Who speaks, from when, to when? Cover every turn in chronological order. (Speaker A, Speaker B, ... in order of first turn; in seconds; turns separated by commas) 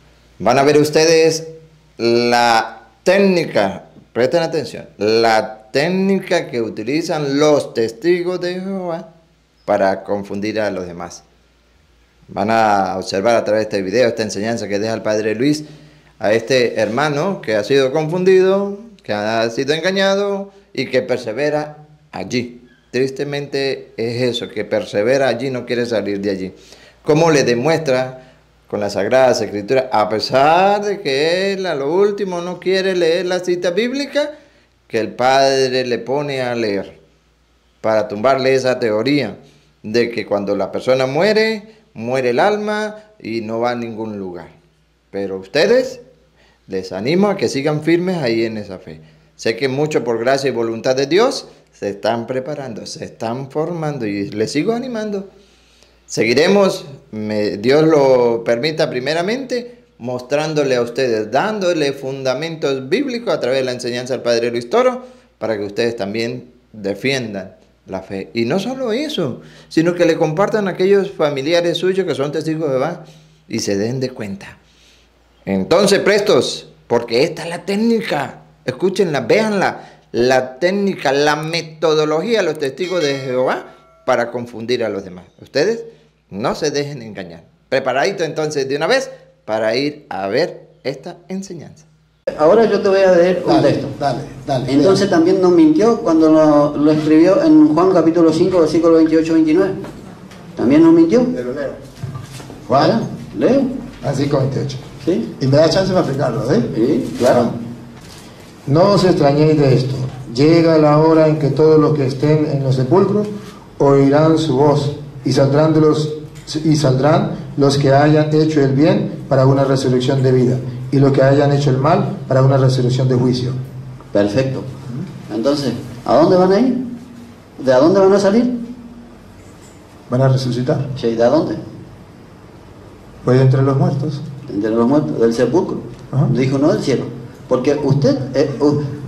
Speaker A: 0.4-9.1, Speaker A: 9.7-11.2, Speaker A: 12.3-15.6, Speaker A: 16.2-34.3, Speaker A: 34.9-36.9, Speaker A: 37.8-44.5, Speaker A: 45.1-46.0, Speaker A: 46.7-55.3, Speaker A: 56.1-74.5, Speaker A: 75.5-91.8, Speaker B: 92.3-93.9, Speaker C: 93.5-95.0, Speaker B: 94.7-99.8, Speaker B: 100.6-101.3, Speaker C: 101.3-101.8, Speaker C: 102.7-103.0, Speaker B: 102.8-103.7, Speaker C: 104.0-104.8, Speaker C: 105.4-107.5, Speaker B: 106.7-107.5, Speaker C: 108.7-123.6, Speaker B: 124.1-124.7, Speaker B: 125.3-126.8, Speaker B: 127.6-128.5, Speaker C: 130.1-130.9, Speaker B: 130.9-131.6, Speaker C: 133.2-134.2, Speaker B: 134.5-138.8